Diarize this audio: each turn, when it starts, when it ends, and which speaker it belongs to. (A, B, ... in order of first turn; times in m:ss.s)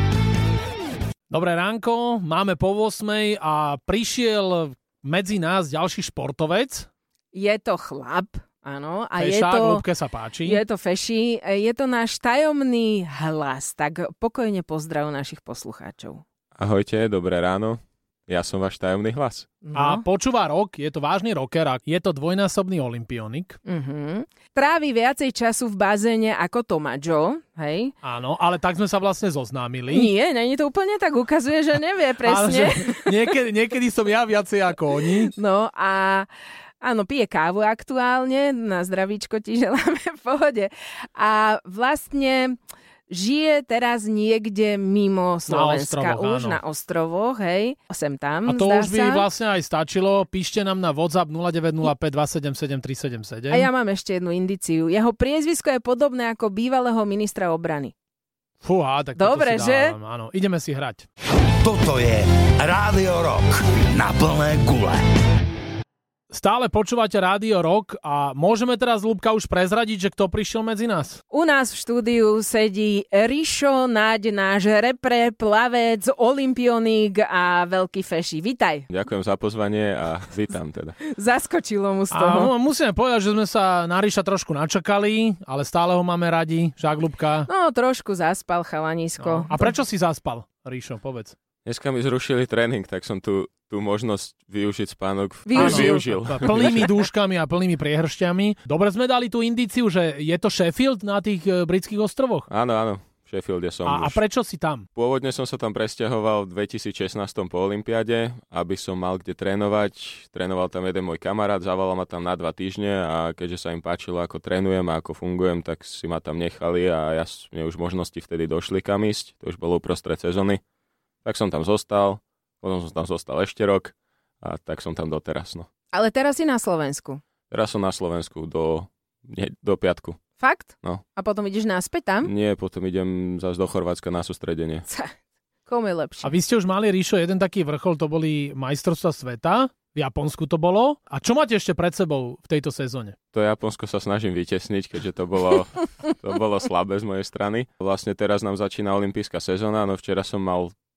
0:01.3-0:06.9 A
0:07.3-0:09.8 B
0:09.2-0:10.6 A
0:10.4-0:16.2 B
0:16.6-0:19.5 C
0:19.6-0:20.0 B
0:19.7-0:23.6 A
0:23.6-0:27.9 B
0:28.0-0:30.1 A
0:29.9-0:33.2 B
0:32.2-0:35.3 A
0:35.3-0:36.3 B
0:36.8-0:42.6 B
0:43.1-0:49.3 B
0:45.5-0:46.6 A
0:48.4-0:53.7 A
0:53.5-0:57.9 B
0:58.6-1:01.1 A
0:59.2-0:59.9 B
1:01.6-1:05.0 D
1:06.3-1:11.2 A
1:11.3-1:18.9 B
1:18.9-1:21.0 C
1:21.0-1:22.5 B
1:22.1-1:27.5 A
1:27.5-1:29.7 B
1:29.2-1:31.3 A
1:31.6-1:37.0 C
1:35.4-1:36.0 B
1:35.5-1:42.5 A
1:42.5-1:44.2 C
1:43.8-1:44.9 A
1:45.0-2:00.6 C
2:01.2-2:05.7 C
2:05.9-2:07.2 B
2:07.5-2:10.2 C
2:10.4-2:12.3 B
2:12.2-2:14.8 C
2:14.9-2:15.1 B
2:15.7-2:16.3 B
2:16.2-2:23.2 A
2:23.3-2:30.7 C